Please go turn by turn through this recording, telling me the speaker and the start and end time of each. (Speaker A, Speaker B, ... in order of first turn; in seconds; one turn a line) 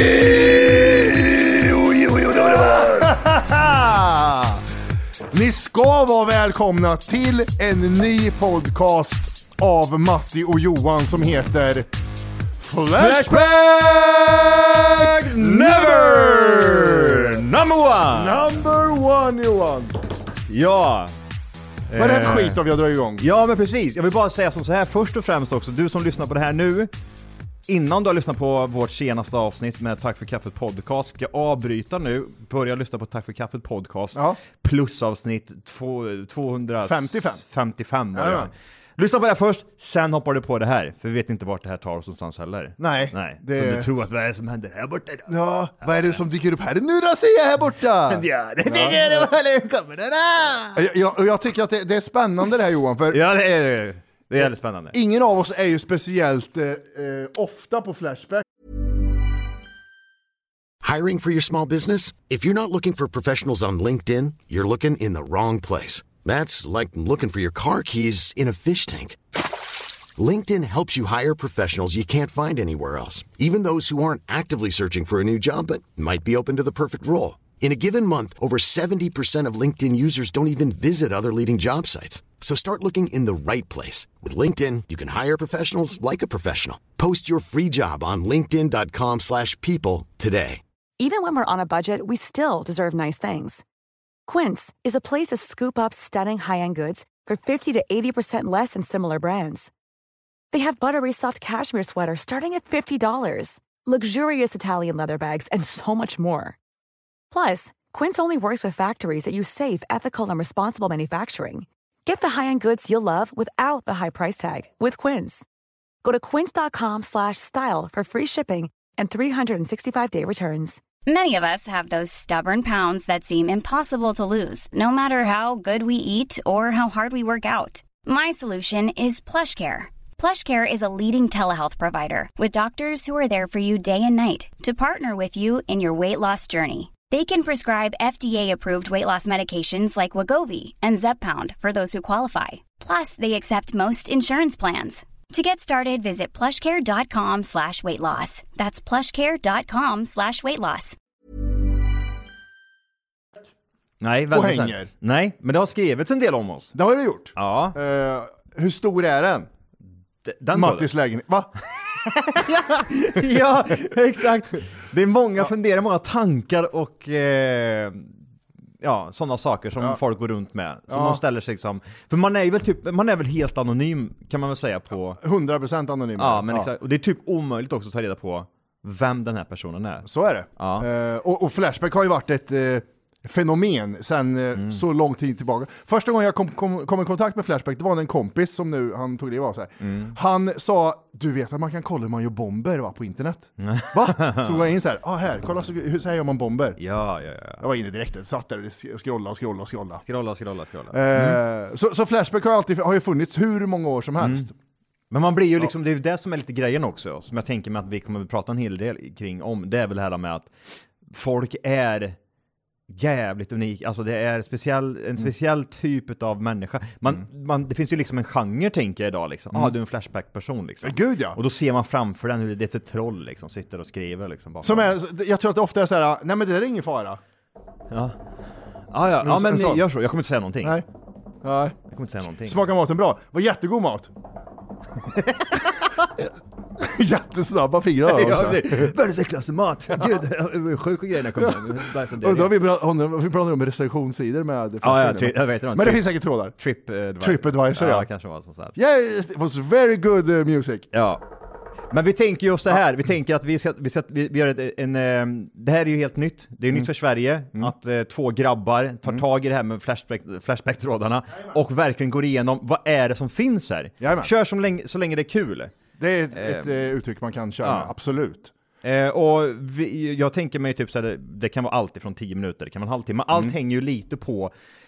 Speaker A: 0.9-4.6
Speaker A: 5.3-11.9
Speaker A: 12.6-17.4
Speaker B: 12.9-18.5
Speaker A: 18.1-20.0
Speaker B: 20.5-21.1
Speaker B: 21.9-22.6
Speaker A: 21.9-23.2
Speaker B: 23.2-26.9
Speaker B: 27.7-46.1
Speaker A: 34.1-34.4
Speaker A: 36.9-37.4
Speaker A: 38.1-38.5
Speaker A: 42.8-43.9
Speaker A: 45.3-49.3
Speaker B: 48.1-50.9
Speaker A: 50.7-53.2
Speaker B: 53.1-55.0
Speaker A: 54.9-58.5
Speaker C: 60.8-69.2
Speaker C: 70.2-90.6
Speaker D: 91.0-93.6
Speaker D: 94.3-99.7
Speaker D: 100.5-106.6
Speaker D: 107.3-115.5
Speaker D: 116.0-120.8
Speaker E: 121.1-151.0
Speaker B: 154.0-156.8
Speaker A: 154.3-154.9
Speaker A: 156.8-159.5
Speaker B: 157.4-157.8
Speaker B: 160.2-160.9
Speaker A: 160.5-161.5
Speaker B: 162.0-168.2
Speaker B: 168.8-175.2
Speaker A: 170.9-171.2
Speaker A: 175.2-176.7
Speaker B: 176.2-180.9
Speaker A: 180.0-196.8
Speaker B: 184.6-184.8
Speaker B: 189.8-190.2
Speaker B: 193.6-194.6
Speaker B: 196.8-197.6
Speaker A: 197.6-200.0
Speaker B: 200.0-201.4
Speaker A: 200.9-204.5
Speaker B: 204.2-204.5
Speaker B: 205.1-210.5
Speaker B: 211.1-212.2
Speaker B: 212.9-224.9
Speaker A: 220.8-221.4
Speaker A: 224.6-227.2
Speaker B: 227.9-228.2
Speaker B: 228.9-230.8
Speaker A: 229.2-229.8
Speaker A: 231.4-231.8
Speaker B: 231.9-232.6
Speaker A: 232.4-234.1
Speaker B: 235.1-235.7
Speaker A: 236.8-238.9
Speaker B: 238.1-242.6
Speaker A: 239.9-240.2
Speaker A: 241.4-241.6
Speaker A: 242.2-246.6
Speaker B: 244.8-248.8
Speaker A: 247.2-248.1
Speaker A: 248.8-250.9
Speaker B: 250.9-251.2
Speaker B: 251.9-265.8
Speaker A: 264.0-264.3
Speaker A: 266.0-268.5
Speaker B: 266.3-266.7
Speaker B: 267.6-267.9
Speaker B: 268.8-274.5